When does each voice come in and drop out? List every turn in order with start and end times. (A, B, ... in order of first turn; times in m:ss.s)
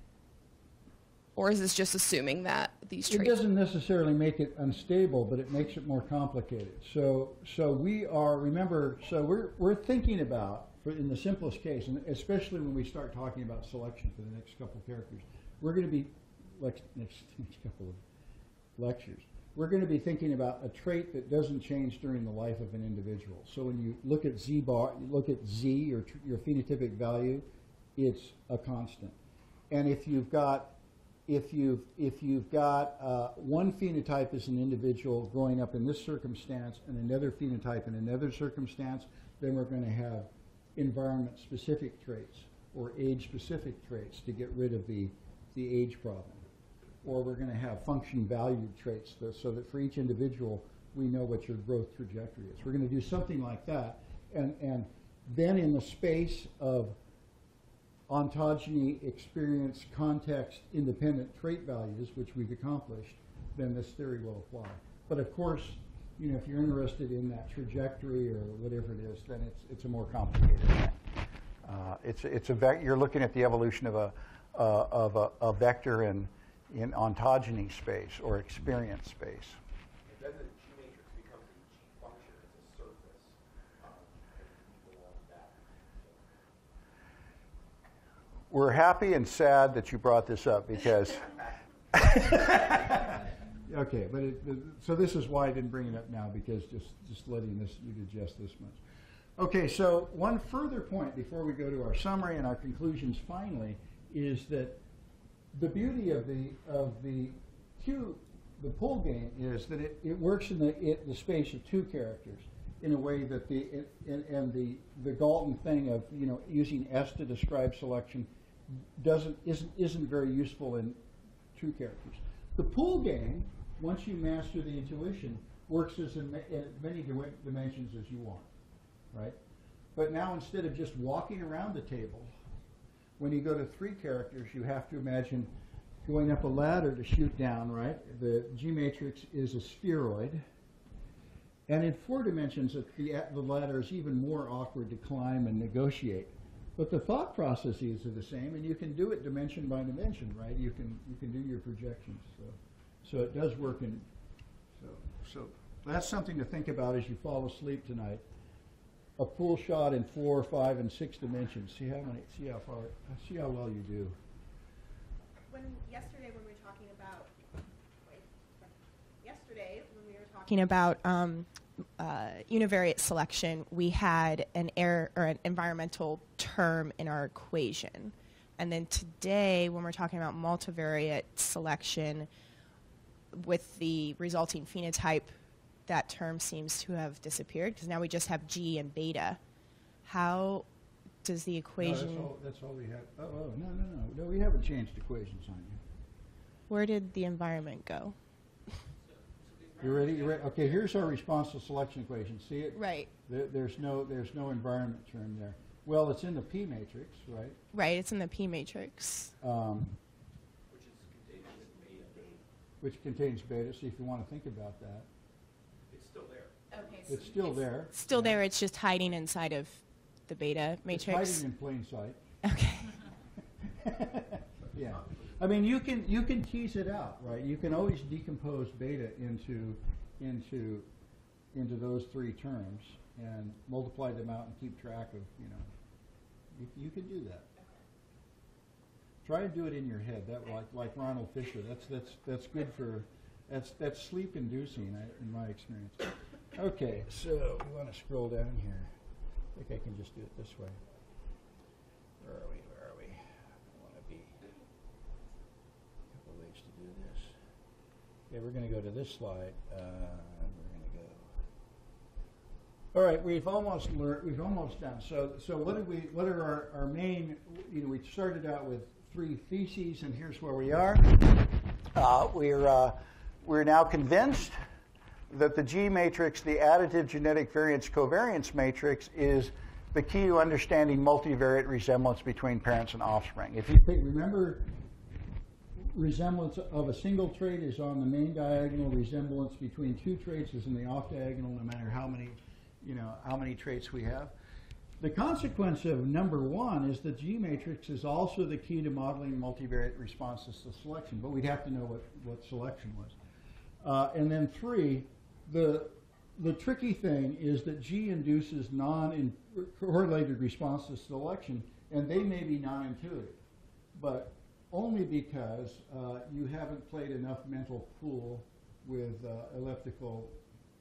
0:01.4-0:03.4 A
0:03.1-0:18.0 B
0:18.8-0:27.4 B
0:28.0-0:29.2 B
0:29.7-0:46.4 B
0:47.0-0:57.0 B
0:58.1-1:11.0 B
1:11.6-1:19.6 B
1:20.1-1:26.4 C
1:28.5-1:31.3 B
1:31.9-1:38.8 B
1:39.4-1:44.8 B
1:45.5-2:01.0 B
2:01.6-2:08.5 B
2:10.0-2:12.3 B
2:13.2-2:15.5 B
2:16.0-2:20.4 B
2:21.7-2:34.0 B
2:34.8-2:38.2 B
2:39.2-2:44.2 B
2:45.5-2:47.2 D
2:49.3-2:49.6 D
2:50.2-3:02.3 D
3:03.3-3:05.3 D
3:05.9-3:09.4 D
3:10.0-3:10.7 D
3:11.2-3:12.3 D
3:11.8-3:15.8 B
3:16.7-3:18.2 D
3:19.2-3:20.6 C
3:19.8-3:27.6 B
3:22.8-3:23.1 D
3:27.7-3:29.3 D
3:29.4-3:30.0 B
3:30.7-3:32.4 C
3:32.8-3:35.1 B
3:35.9-3:37.1 C
3:37.1-3:38.4 B
3:37.9-3:41.4 D
3:40.9-3:42.2 B
3:42.4-3:43.0 D
3:43.8-3:50.9 B
3:51.5-3:55.7 B
3:56.5-3:57.5 B
3:59.2-4:08.9 B
4:09.6-4:10.8 B
4:12.2-4:14.4 B
4:16.1-4:17.4 B
4:18.3-4:21.3 B
4:22.9-4:34.6 B
4:35.3-4:44.7 B
4:45.9-4:54.3 B
4:55.0-5:03.2 B
5:03.8-5:13.4 B
5:13.9-5:20.4 B